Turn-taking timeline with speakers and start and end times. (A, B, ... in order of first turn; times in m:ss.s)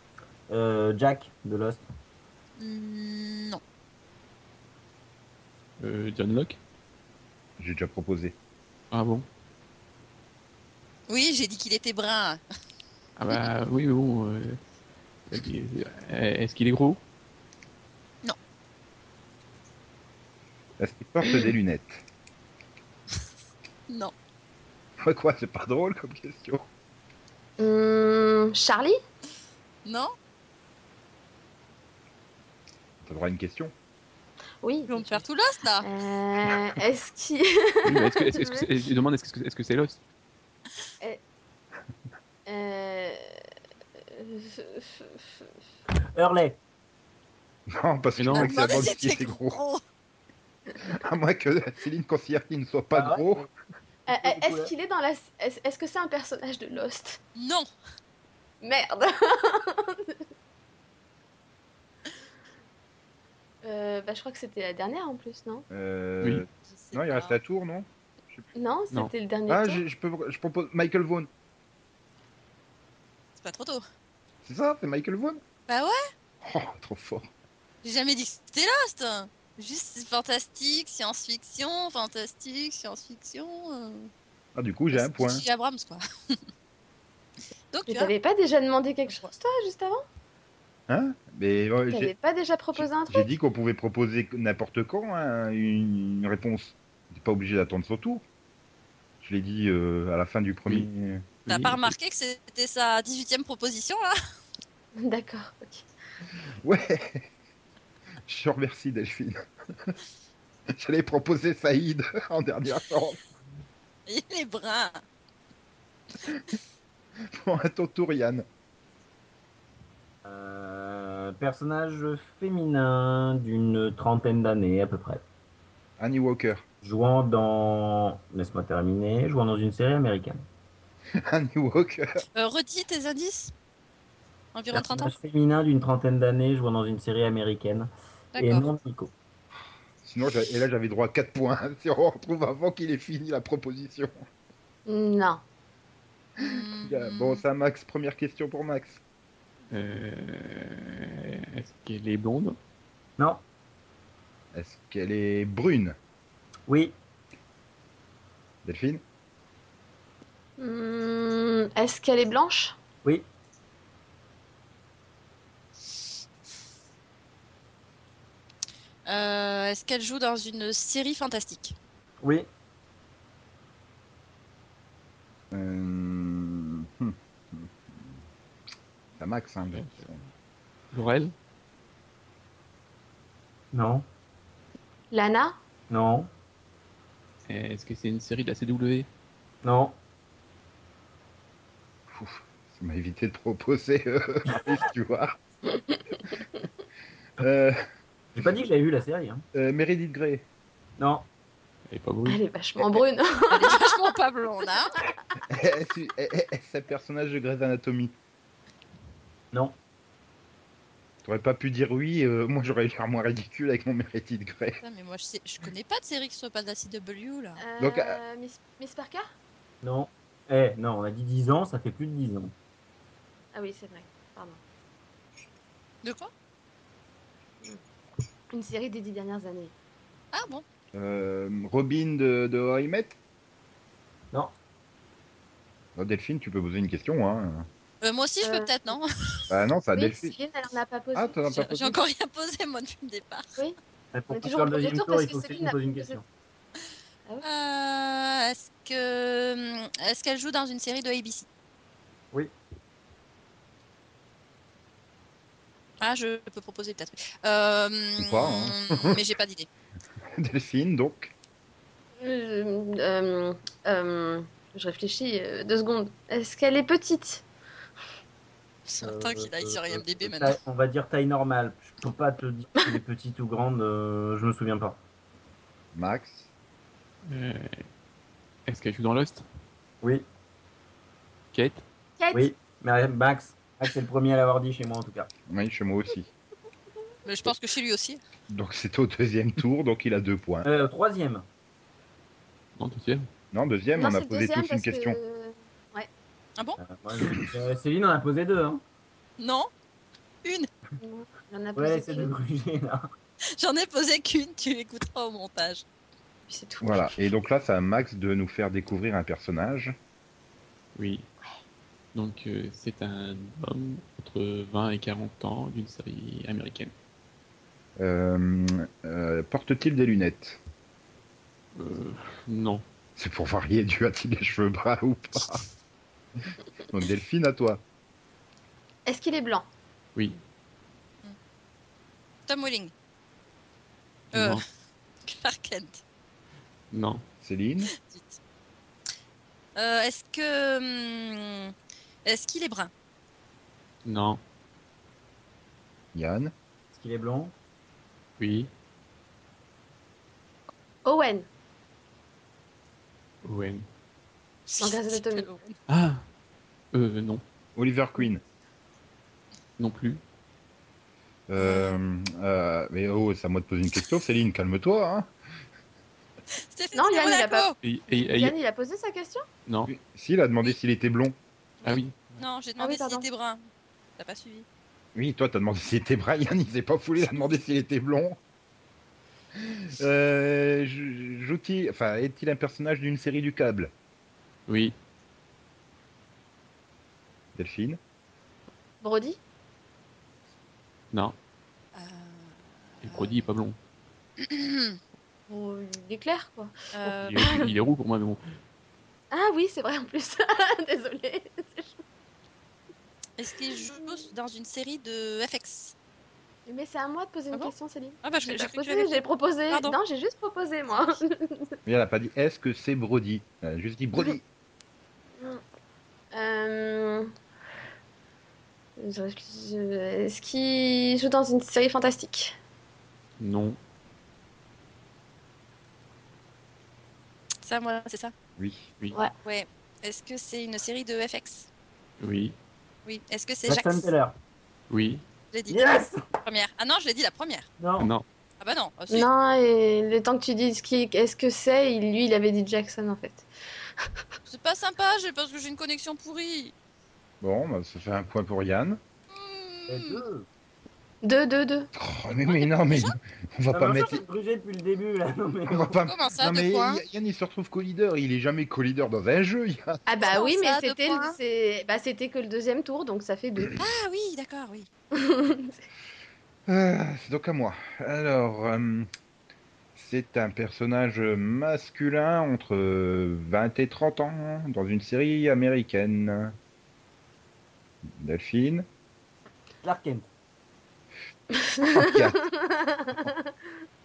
0:00.5-0:01.8 A
0:02.6-0:03.6 B
0:05.8-0:06.6 C
0:07.6-0:08.4 D
0:08.9-0:09.2 C
0:11.1-0:12.4 B
0:13.2-0:14.6 C
0:15.3-0:17.0 C
0:20.8-0:22.0 D
0:25.0-0:26.7 D
0:27.6-0:29.0 E
0:29.8-0:30.1 B
0:33.0-0:33.7 D
0:34.6-0:35.2 E
0:34.9-0:35.9 B
0:35.8-0:38.7 E
0:37.8-0:40.0 C
0:42.5-0:43.3 E
0:44.1-0:45.4 E
0:46.1-0:46.6 A
0:47.7-0:49.6 D
0:48.2-0:48.9 C
0:48.3-0:49.8 B
0:50.8-0:53.5 D
0:52.9-0:53.5 A
0:54.1-0:57.2 E
0:54.2-0:54.7 A
0:57.4-0:57.7 B
0:58.6-1:00.2 E
1:03.6-1:05.6 E
1:05.7-1:08.5 D
1:06.7-1:07.4 B
1:08.5-1:09.8 E
1:09.5-1:11.3 D
1:13.4-1:13.8 B
1:14.4-1:15.4 D
1:15.7-1:16.0 B
1:16.4-1:17.3 D
1:17.8-1:24.1 B
1:24.5-1:25.4 D
1:24.9-1:26.0 B
1:27.7-1:28.1 B
1:27.9-1:30.0 E
1:30.9-1:32.1 D
1:31.9-1:33.3 E
1:32.7-1:38.2 D
1:39.2-1:41.2 D
1:41.4-1:41.9 C
1:41.5-1:44.1 B
1:44.9-1:45.8 E
1:46.6-1:47.3 D
1:48.2-1:49.9 D
1:50.7-1:53.2 D
1:54.1-1:55.0 B
1:57.3-1:58.5 D
2:00.2-2:05.2 A
2:06.0-2:06.6 D
2:06.8-2:10.4 A
2:11.2-2:12.2 D
2:12.3-2:13.5 B
2:14.5-2:15.1 B
2:14.7-2:19.1 A
2:18.3-2:18.7 B
2:20.0-2:24.2 D
2:24.9-2:25.4 E
2:26.4-2:27.4 B
2:26.4-2:29.0 D
2:29.7-2:32.6 C
2:34.5-2:36.0 D
2:36.7-2:36.9 A
2:38.6-2:39.0 D
2:40.6-2:42.8 E
2:49.0-2:51.7 B
2:52.2-2:52.5 A
2:55.5-2:58.2 D
2:59.2-3:00.2 D
2:59.7-3:00.1 C
3:00.9-3:01.3 C
3:03.7-3:04.0 A
3:05.1-3:05.6 E
3:05.9-3:06.3 A
3:07.5-3:09.1 C
3:09.6-3:09.9 A
3:12.1-3:15.4 D
3:17.4-3:17.8 D
3:18.4-3:19.4 A
3:19.5-3:20.4 D
3:21.0-3:21.3 A
3:21.9-3:22.4 C
3:22.2-3:24.0 E
3:23.5-3:24.9 B
3:25.5-3:28.1 D
3:31.2-3:34.8 D
3:34.8-3:37.6 B
3:37.6-3:39.3 E
3:37.8-3:38.2 D
3:39.8-3:42.5 A
3:43.5-3:44.6 E
3:46.0-3:46.3 B
3:48.5-3:49.7 E
3:50.3-3:50.6 B
3:50.9-3:53.2 D
3:56.0-3:57.7 D
3:58.0-3:59.4 B
3:58.4-3:59.0 E
3:59.5-4:00.3 D
3:59.9-4:01.4 E
4:01.1-4:02.0 D
4:01.5-4:03.6 B
4:04.1-4:06.2 A
4:04.3-4:06.2 E
4:07.4-4:11.5 B
4:16.0-4:19.7 B
4:18.2-4:19.2 D
4:20.4-4:21.3 D
4:22.2-4:27.4 E
4:28.9-4:30.6 B
4:29.0-4:35.0 A
4:35.9-4:36.5 D
4:37.2-4:37.8 C
4:38.7-4:39.4 C
4:41.5-4:41.8 C
4:42.2-4:42.5 E
4:42.3-4:45.3 A
4:45.5-4:46.3 D
4:47.2-4:48.2 B
4:48.5-4:50.7 D
4:50.6-4:51.4 A
4:52.8-4:53.3 C
4:53.5-4:55.2 D
4:54.0-4:56.1 E
4:56.8-4:58.8 A
4:59.4-4:59.7 B
5:00.4-5:00.7 B
5:01.0-5:02.3 E
5:01.8-5:03.1 A
5:03.5-5:05.8 B
5:06.5-5:07.1 E
5:06.8-5:10.0 D
5:11.0-5:11.3 C
5:12.1-5:16.9 C
5:18.0-5:20.6 D
5:21.7-5:22.8 C
5:23.2-5:25.6 D
5:26.9-5:27.8 D
5:29.0-5:29.7 E
5:32.5-5:32.9 B
5:34.3-5:34.6 C
5:34.3-5:34.6 B
5:35.2-5:36.0 B
5:36.9-5:37.2 C
5:37.4-5:37.9 D
5:37.9-5:38.4 B
5:39.8-5:41.7 B
5:42.2-5:42.9 B
5:44.0-5:44.4 C
5:46.1-5:46.5 D
5:46.9-5:47.5 A
5:48.4-5:48.7 C
5:51.0-5:51.5 E
5:53.4-5:53.8 C
5:54.7-5:55.8 B
5:54.8-5:55.5 E
5:55.9-5:56.2 C
5:56.9-5:57.4 C
5:57.8-5:58.4 D
5:59.8-6:00.2 C
6:01.5-6:05.3 D
6:01.6-6:02.0 B
6:06.7-6:07.8 B
6:06.9-6:09.4 E
6:07.8-6:08.5 C
6:09.6-6:09.9 C
6:09.9-6:11.4 D
6:11.8-6:13.6 B
6:11.8-6:12.4 C
6:12.8-6:13.3 E
6:14.2-6:14.6 B
6:15.1-6:18.4 D
6:19.6-6:23.9 D
6:24.7-6:24.9 C
6:27.6-6:28.0 D
6:29.0-6:29.4 E
6:31.9-6:33.4 B
6:33.0-6:33.8 C
6:34.4-6:35.0 B
6:35.5-6:37.7 E
6:36.9-6:37.4 B
6:37.2-6:38.4 C
6:39.3-6:42.0 E
6:43.4-6:45.9 B
6:43.9-6:44.2 E
6:46.7-6:51.7 E
6:47.5-6:50.0 B
6:51.8-6:54.4 D
6:56.3-6:57.3 E
6:59.0-7:02.6 E
7:03.4-7:03.8 C
7:07.6-7:08.3 B
7:08.6-7:08.9 D
7:09.4-7:11.7 B
7:12.2-7:12.5 C
7:13.0-7:14.1 B
7:13.7-7:14.4 A
7:14.9-7:15.2 C
7:15.5-7:17.7 B
7:15.7-7:16.2 A
7:17.8-7:18.1 A
7:18.0-7:18.2 C
7:18.6-7:19.3 B
7:19.1-7:23.5 E
7:24.5-7:26.7 B
7:27.4-7:29.0 D
7:29.3-7:30.2 B
7:29.9-7:30.4 A
7:31.2-7:31.9 E
7:31.9-7:34.2 D
7:32.5-7:33.2 B
7:33.7-7:36.0 A
7:35.7-7:40.0 D
7:36.0-7:37.0 B
7:40.1-7:43.8 E
7:40.2-7:41.4 B
7:43.8-7:44.9 B
7:45.1-7:45.8 E
7:46.7-7:49.1 D
7:49.9-7:56.5 D
7:58.1-7:58.8 D
7:59.8-8:00.3 A
8:01.5-8:03.7 E
8:01.8-8:02.5 D